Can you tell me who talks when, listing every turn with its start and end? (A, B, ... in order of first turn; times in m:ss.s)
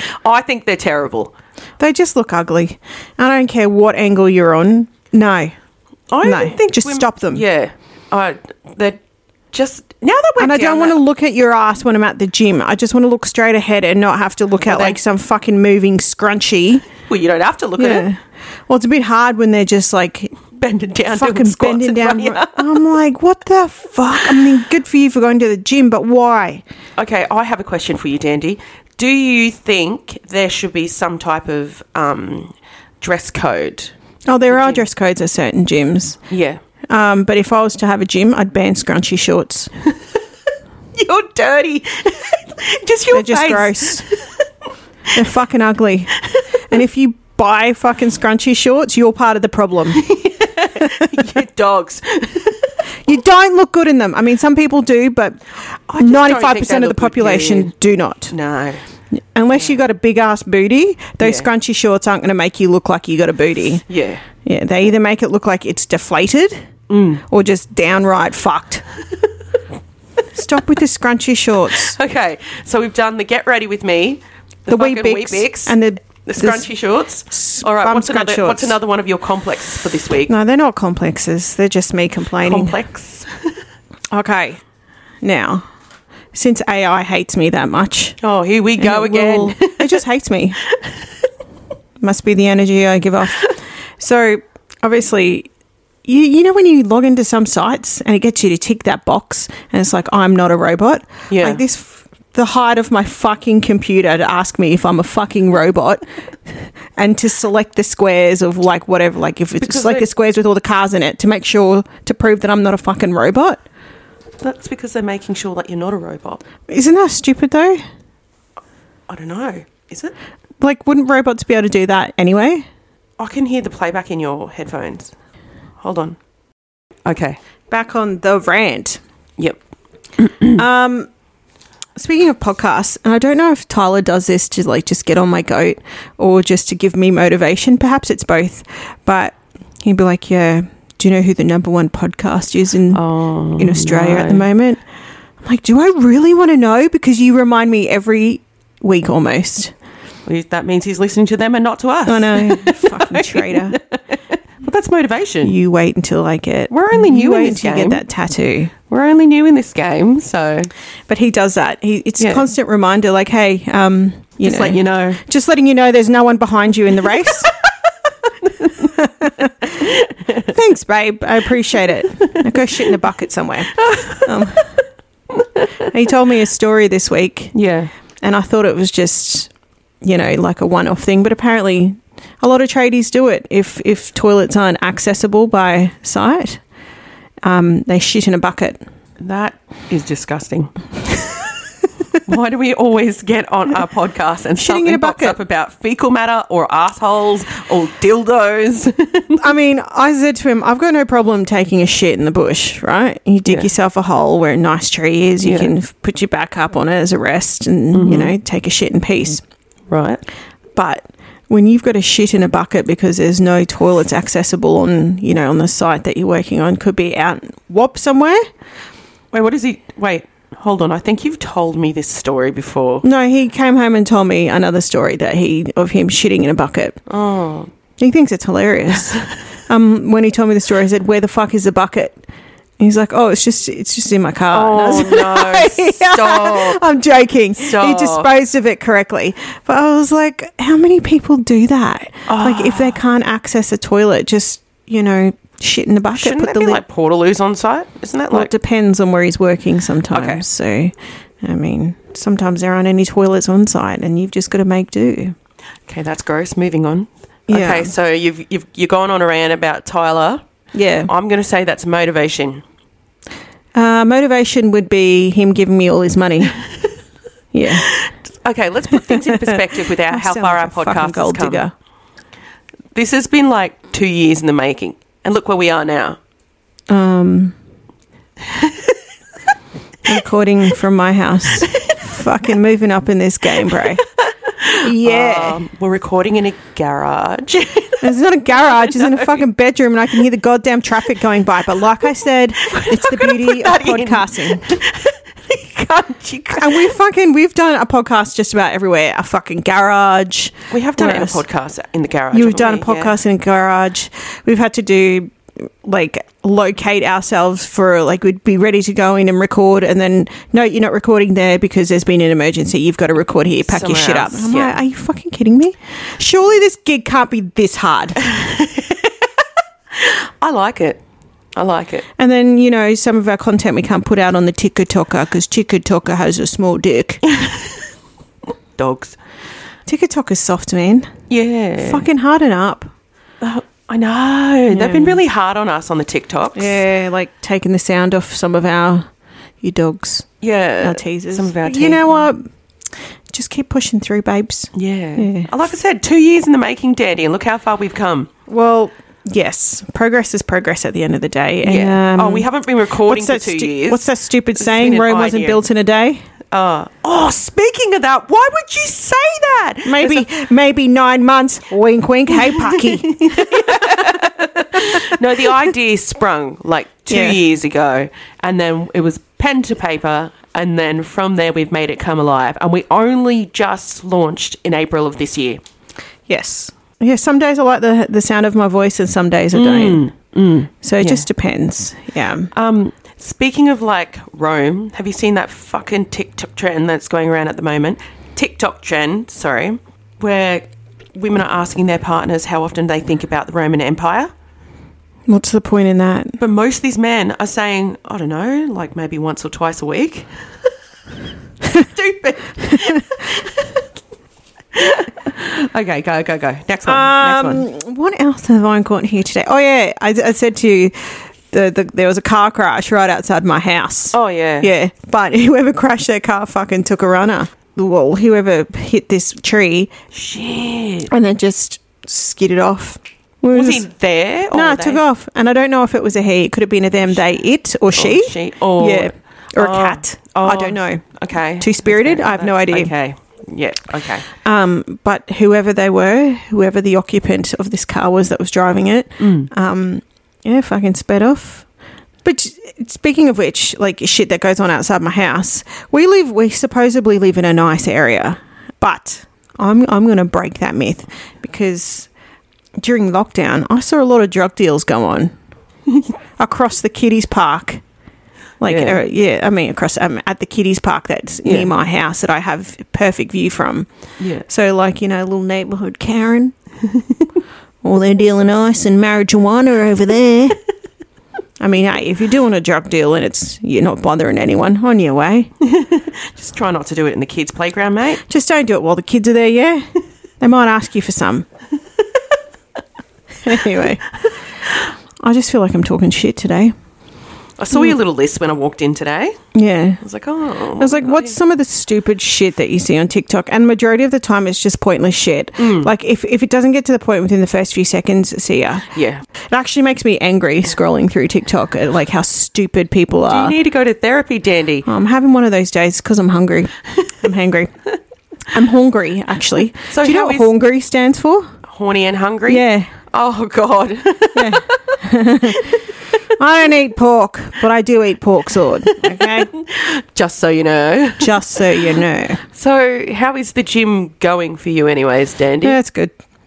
0:00.2-0:01.3 A
0:01.8-0:05.5 B
0:06.1-0:09.0 A
0:06.2-0:07.4 B
0:09.5-0:11.0 A
0:10.4-0:16.8 B
0:14.6-0:15.0 A
0:17.0-0:18.1 A
0:17.8-0:20.4 B
0:20.5-0:22.8 A
0:21.1-0:26.6 B
0:27.0-0:33.9 A
0:34.3-0:36.2 B
0:34.5-0:34.8 A
0:36.3-0:36.6 A
0:36.9-0:39.7 B
0:40.9-0:44.3 A
0:43.1-0:44.0 B
0:45.1-0:46.2 B
0:46.7-0:50.0 B
0:49.9-0:52.8 A
0:50.8-0:51.2 B
0:53.0-0:55.4 B
0:55.9-0:57.7 A
0:56.0-0:58.3 B
0:58.3-0:58.8 A
0:59.1-1:03.8 B
1:01.2-1:01.5 A
1:03.9-1:04.2 A
1:04.4-1:06.6 B
1:06.9-1:07.2 A
1:07.2-1:08.8 B
1:10.3-1:12.0 B
1:11.8-1:20.3 A
1:14.7-1:16.7 B
1:17.3-1:18.8 B
1:20.3-1:22.8 B
1:22.4-1:23.5 A
1:24.1-1:24.6 B
1:25.2-1:25.6 B
1:26.3-1:28.2 B
1:28.2-1:30.0 A
1:28.8-1:30.6 B
1:32.0-1:35.5 B
1:36.0-1:53.6 B
1:41.3-1:41.6 A
1:49.6-1:50.0 A
1:54.4-1:56.4 A
1:56.7-1:57.8 B
1:59.1-2:00.1 A
2:00.6-2:02.6 B
2:03.2-2:05.1 A
2:05.8-2:06.2 A
2:07.0-2:07.4 A
2:07.7-2:09.0 B
2:10.2-2:10.6 A
2:10.5-2:11.1 B
2:11.9-2:23.0 B
2:22.9-2:24.5 A
2:23.6-2:24.8 B
2:25.4-2:29.7 B
2:30.3-2:35.5 A
2:32.0-2:33.8 B
2:35.4-2:38.7 B
2:36.7-2:38.0 A
2:38.9-2:40.7 A
2:41.1-2:47.5 B
2:42.2-2:42.5 A
2:44.4-2:45.2 A
2:48.4-2:49.0 A
2:48.8-2:54.7 B
2:49.6-2:50.5 A
2:52.2-2:52.6 A
2:53.7-2:54.3 A
2:55.3-2:55.8 A
2:55.8-2:57.5 B
2:57.5-2:57.9 A
2:58.2-2:59.5 B
3:00.0-3:06.6 B
3:07.4-3:08.8 B
3:09.2-3:11.5 A
3:12.2-3:19.4 A
3:14.6-3:15.4 B
3:19.4-3:29.4 B
3:25.4-3:25.7 A
3:27.9-3:28.3 A
3:29.9-3:30.2 A
3:30.8-3:38.4 B
3:39.3-3:43.0 A
3:43.0-3:47.0 B
3:47.1-3:47.7 A
3:48.0-3:52.2 B
3:52.8-4:06.8 B
3:54.5-3:56.8 A
3:57.6-3:58.3 A
4:02.3-4:03.0 A
4:06.1-4:08.5 A
4:08.3-4:15.3 B
4:10.1-4:10.4 A
4:15.9-4:20.4 A
4:17.5-4:17.9 B
4:20.7-4:21.1 B
4:21.0-4:22.6 A
4:23.7-4:26.6 B
4:27.5-4:27.9 B
4:27.7-4:31.6 A
4:29.0-4:31.7 B
4:32.9-4:36.2 A
4:36.9-4:37.5 B
4:38.4-4:38.9 A
4:40.0-4:44.0 B
4:41.7-4:42.1 A
4:44.2-4:48.0 A
4:44.8-4:45.6 B
4:48.0-4:54.7 B
4:48.8-4:49.3 A
4:52.6-4:56.9 A
4:56.6-5:01.4 B
5:00.7-5:03.2 A
5:02.3-5:18.3 B
5:13.6-5:14.8 A
5:18.2-5:19.1 A
5:19.9-5:21.0 A
5:21.6-5:22.1 A
5:22.2-5:27.2 B
5:27.2-5:27.8 A
5:28.8-5:29.2 A
5:29.9-5:31.1 B
5:31.3-5:32.0 A
5:31.8-5:32.9 B
5:33.4-5:36.8 A
5:34.7-5:35.2 B
5:36.5-5:39.1 B
5:39.6-5:40.3 B
5:40.4-5:42.2 A
5:40.8-5:42.4 B
5:43.3-5:45.5 B
5:44.7-5:48.3 A
5:48.5-5:52.5 B
5:51.6-5:55.6 A
5:53.0-5:56.2 B
5:56.5-6:00.3 A
5:59.8-6:04.2 B
6:02.5-6:15.6 A
6:04.8-6:05.5 B
6:07.1-6:07.4 B
6:16.3-6:20.0 B
6:19.5-6:21.2 A
6:20.8-6:22.5 B
6:22.5-6:34.3 A
6:35.3-6:36.4 B
6:36.4-6:40.3 A
6:41.7-6:43.8 A
6:44.7-6:47.7 A
6:46.9-6:59.9 B
6:54.1-6:54.7 A
7:00.1-7:01.1 A
7:01.1-7:03.9 B
7:03.5-7:05.0 A
7:04.5-7:11.0 B
7:07.9-7:14.3 A
7:11.6-7:12.9 B
7:14.4-7:21.6 B
7:19.2-7:19.5 A
7:22.2-7:32.1 B
7:32.8-7:35.3 B
7:36.4-7:37.8 B
7:38.6-7:43.9 B
7:38.7-7:39.0 A
7:41.4-7:41.7 A
7:44.2-7:44.4 A
7:44.4-7:46.5 B
7:47.8-7:50.6 B
7:51.6-7:55.5 B
7:55.6-7:58.2 A
7:58.3-7:59.8 B
8:00.4-8:01.5 B
8:03.4-8:04.1 B
8:05.2-8:06.7 B
8:07.6-8:09.4 A
8:09.5-8:10.0 B
8:10.0-8:11.4 A
8:10.8-8:18.9 B
8:15.6-8:15.9 A
8:18.9-8:19.2 A
8:19.5-8:23.6 B
8:23.3-8:24.9 A
8:24.8-8:27.7 B
8:28.5-8:31.5 B
8:29.9-8:30.5 A
8:31.7-8:34.7 A
8:32.5-8:32.9 B
8:34.3-8:35.8 B
8:35.4-8:35.8 A
8:36.4-8:39.5 B
8:38.9-8:41.8 A
8:41.2-8:42.4 B
8:42.5-8:45.8 A
8:45.6-8:46.1 B